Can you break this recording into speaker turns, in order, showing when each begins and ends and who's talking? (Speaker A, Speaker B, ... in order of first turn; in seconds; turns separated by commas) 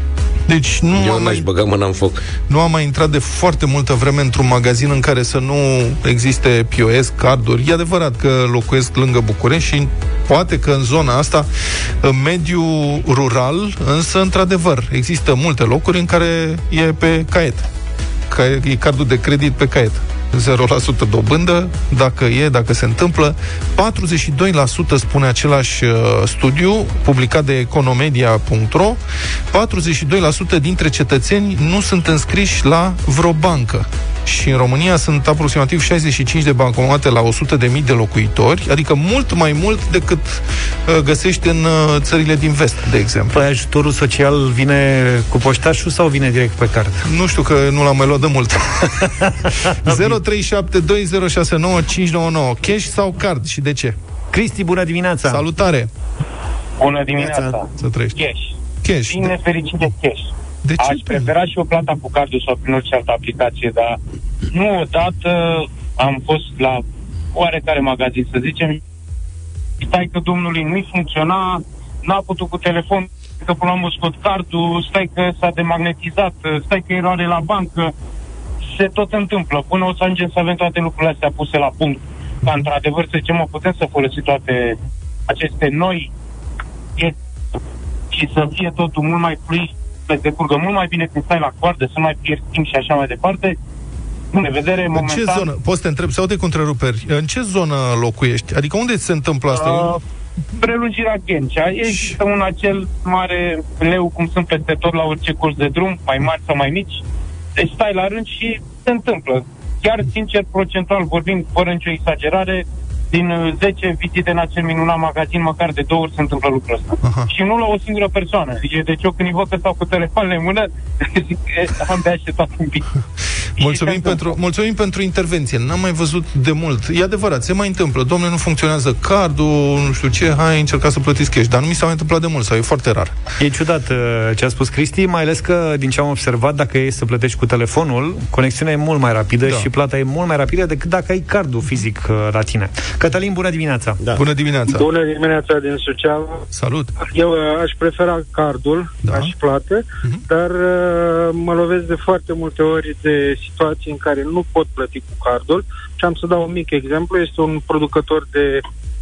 Speaker A: 0.5-1.4, Speaker B: 0.9-2.2, Speaker A: 2.5-11.5, Speaker A: 12.0-17.7, Speaker A: 18.3-29.0, Speaker A: 29.5-43.4, Speaker C: 43.3-47.0, Speaker A: 47.0-54.0, Speaker C: 49.0-50.1, Speaker C: 54.3-55.4, Speaker A: 55.2-55.9, Speaker D: 56.8-58.5, Speaker B: 57.1-57.6, Speaker A: 57.8-58.2, Speaker A: 58.8-59.4, Speaker D: 59.1-64.0, Speaker A: 60.6-61.3, Speaker D: 64.5-68.8, Speaker D: 69.8-77.9, Speaker D: 78.6-86.1, Speaker D: 88.1-93.5, Speaker D: 94.3-95.5, Speaker A: 94.9-100.0, Speaker D: 99.5-100.0, Speaker D: 100.5-107.0, Speaker A: 101.8-102.2, Speaker D: 107.5-122.9, Speaker A: 117.0-117.3, Speaker A: 123.6-133.2, Speaker D: 123.6-124.3, Speaker C: 133.4-144.0, Speaker A: 139.4-139.7, Speaker B: 144.0-144.2, Speaker A: 144.2-144.9, Speaker E: 144.7-146.4, Speaker A: 146.5-146.9, Speaker E: 147.0-158.6, Speaker A: 149.0-149.3